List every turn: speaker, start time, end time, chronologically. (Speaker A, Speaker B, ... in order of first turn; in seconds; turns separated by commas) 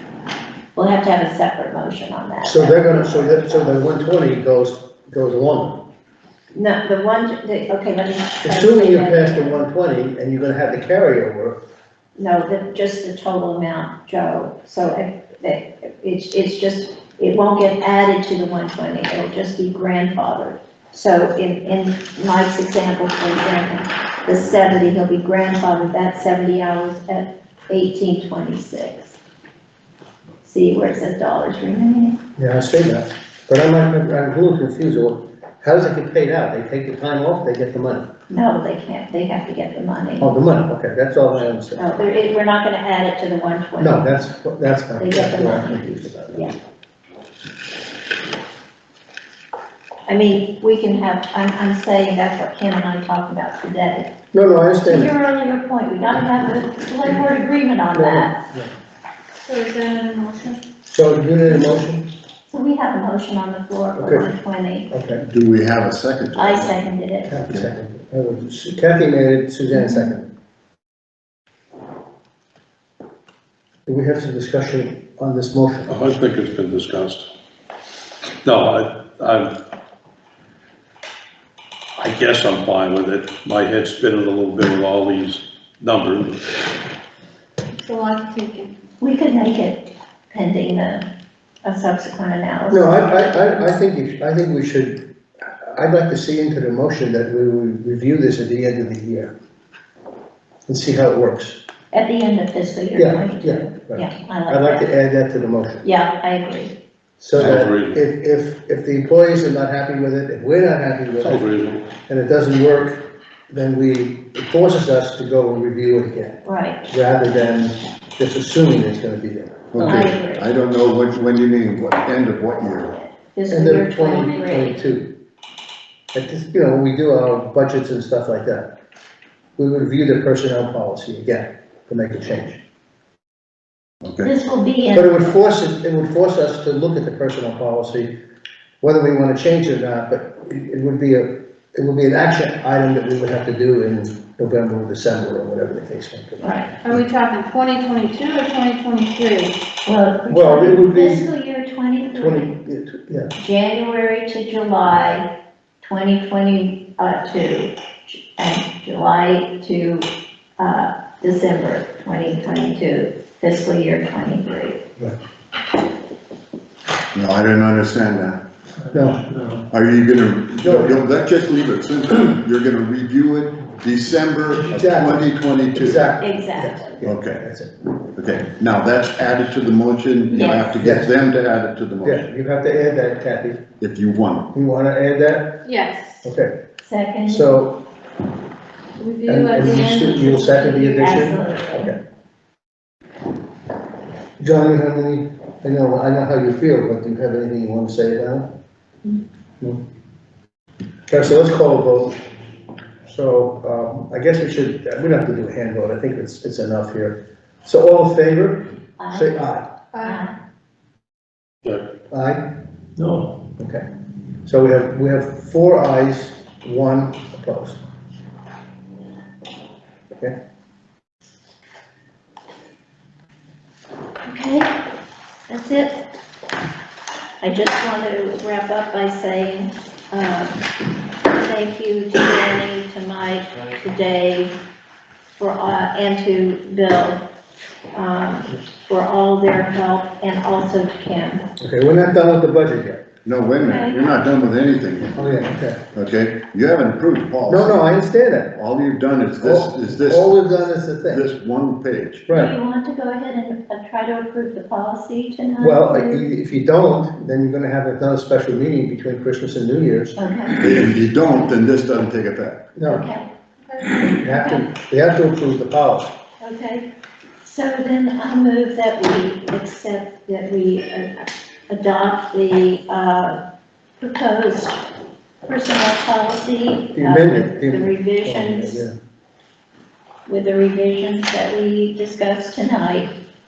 Speaker A: 0.8-3.6, Speaker B: 2.4-5.8, Speaker A: 6.5-9.5, Speaker B: 8.4-11.6, Speaker A: 12.2-29.2, Speaker A: 30.4-32.2, Speaker B: 32.4-38.1, Speaker A: 38.3-40.4, Speaker B: 40.2-41.8, Speaker A: 41.8-44.1, Speaker B: 43.8-46.6, Speaker A: 45.0-46.5, Speaker A: 50.1-54.1, Speaker B: 54.3-55.1, Speaker A: 54.9-58.4, Speaker B: 57.9-58.7, Speaker C: 59.4-60.6, Speaker B: 60.9-62.1, Speaker A: 62.5-64.9, Speaker B: 64.0-64.3, Speaker B: 64.9-65.2, Speaker D: 65.2-66.8, Speaker A: 66.4-67.4, Speaker B: 67.3-70.3, Speaker A: 69.8-70.1, Speaker B: 73.9-76.1, Speaker E: 75.9-77.3, Speaker E: 78.5-79.5, Speaker E: 82.0-86.5, Speaker C: 87.7-88.7, Speaker A: 89.0-91.0, Speaker A: 91.6-92.9, Speaker B: 92.7-99.3, Speaker B: 100.7-101.6, Speaker A: 101.9-104.8, Speaker B: 103.0-105.8, Speaker A: 105.8-106.8, Speaker B: 107.2-111.5, Speaker E: 107.4-108.0, Speaker E: 111.2-111.8, Speaker B: 112.1-120.1, Speaker A: 116.5-116.8, Speaker D: 119.7-123.0, Speaker A: 119.8-120.5, Speaker A: 122.9-124.8, Speaker B: 123.5-125.1, Speaker B: 126.1-128.7, Speaker B: 129.6-132.6, Speaker D: 134.0-134.3, Speaker A: 134.2-135.3, Speaker B: 134.9-138.1, Speaker B: 138.8-146.9, Speaker A: 146.4-146.7, Speaker C: 146.8-149.6, Speaker A: 149.9-152.5, Speaker B: 150.3-151.3, Speaker B: 152.2-153.3, Speaker A: 153.4-155.3, Speaker A: 155.8-164.8, Speaker D: 167.2-168.4, Speaker B: 168.9-169.4, Speaker D: 169.7-176.0, Speaker B: 170.6-171.1, Speaker B: 174.7-177.7, Speaker A: 176.2-177.0, Speaker D: 177.0-177.4, Speaker D: 178.2-182.2, Speaker A: 180.3-180.8, Speaker B: 180.8-181.1, Speaker B: 182.0-183.6, Speaker D: 183.8-184.5, Speaker B: 184.5-185.6, Speaker C: 185.7-186.3, Speaker B: 186.2-186.5, Speaker A: 186.8-187.6, Speaker B: 187.3-187.8, Speaker C: 189.0-191.0, Speaker B: 189.3-192.0, Speaker A: 190.9-191.9, Speaker B: 194.4-198.5, Speaker B: 201.1-202.2, Speaker B: 203.1-209.7, Speaker A: 209.0-209.4, Speaker A: 210.0-210.3, Speaker B: 212.1-212.5, Speaker B: 213.4-213.8, Speaker B: 214.4-217.8, Speaker A: 224.3-224.8, Speaker A: 225.5-226.1, Speaker A: 227.4-230.6, Speaker A: 231.3-234.6, Speaker A: 235.4-237.2, Speaker A: 237.9-241.5, Speaker B: 241.6-243.1, Speaker D: 243.2-245.4, Speaker A: 243.6-244.2, Speaker B: 245.2-245.8, Speaker D: 245.9-247.9, Speaker B: 247.5-248.6, Speaker D: 248.6-250.3, Speaker B: 249.4-251.3, Speaker D: 251.1-252.2, Speaker B: 252.3-252.6, Speaker A: 252.3-256.3, Speaker B: 255.6-260.8, Speaker A: 260.2-260.6, Speaker D: 260.6-262.6, Speaker B: 262.8-263.1, Speaker A: 262.9-263.3, Speaker A: 264.0-264.7, Speaker B: 264.1-266.1, Speaker A: 266.4-266.9, Speaker A: 267.4-273.4, Speaker A: 274.0-274.8, Speaker A: 275.5-278.9, Speaker B: 276.9-278.9, Speaker A: 280.3-283.1